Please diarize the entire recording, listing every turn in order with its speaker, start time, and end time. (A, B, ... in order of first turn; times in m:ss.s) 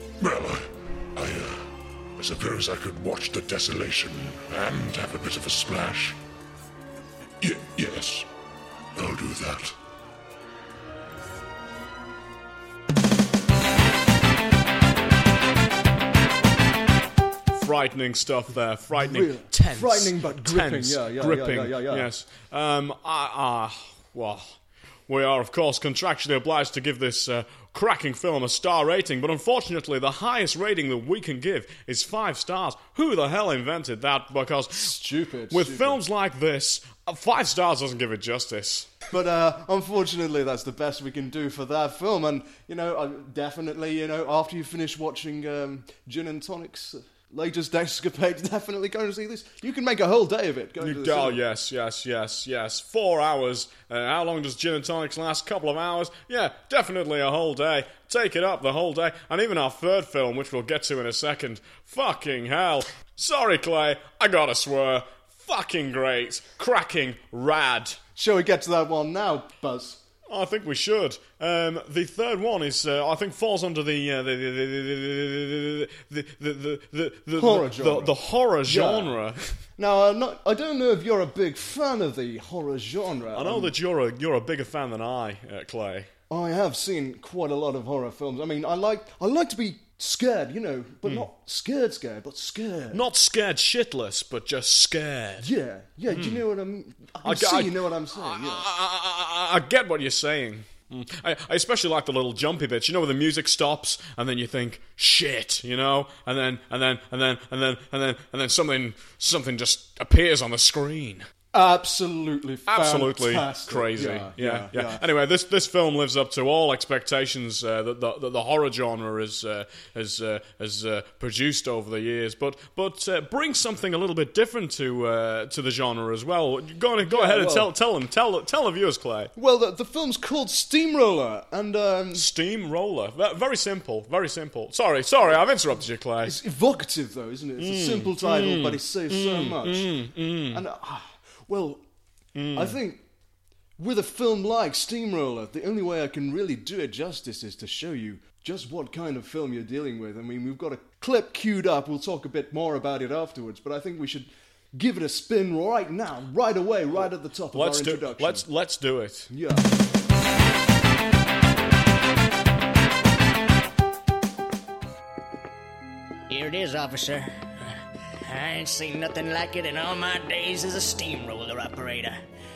0:00.2-0:00.6 A
0:01.2-0:01.6 A
0:02.2-0:06.2 A
0:07.4-0:08.3 A
0:09.0-0:09.8 A
0:17.5-0:35.0 B
0:19.0-0:22.1 C
0:34.7-0:36.0 C
0:35.5-0:38.9 B
0:39.1-0:51.4 C
0:50.8-1:08.0 B
1:08.2-1:10.0 C
1:10.3-1:19.5 B
1:17.4-1:19.2 C
1:19.8-1:23.7 C
1:23.3-1:26.1 B
1:26.3-1:33.0 C
1:32.9-1:35.5 B
1:35.4-1:38.7 C
1:36.1-1:36.4 B
1:37.2-1:51.3 B
1:51.5-1:55.0 C
1:52.7-2:09.3 B
2:07.0-2:07.7 C
2:09.4-2:12.3 C
2:12.1-2:16.4 B
2:16.2-2:21.8 C
2:17.6-2:20.6 B
2:22.4-2:22.7 B
2:22.6-2:23.0 C
2:23.8-2:38.5 C
2:37.5-2:39.3 B
2:39.3-2:39.7 C
2:46.3-2:52.2 D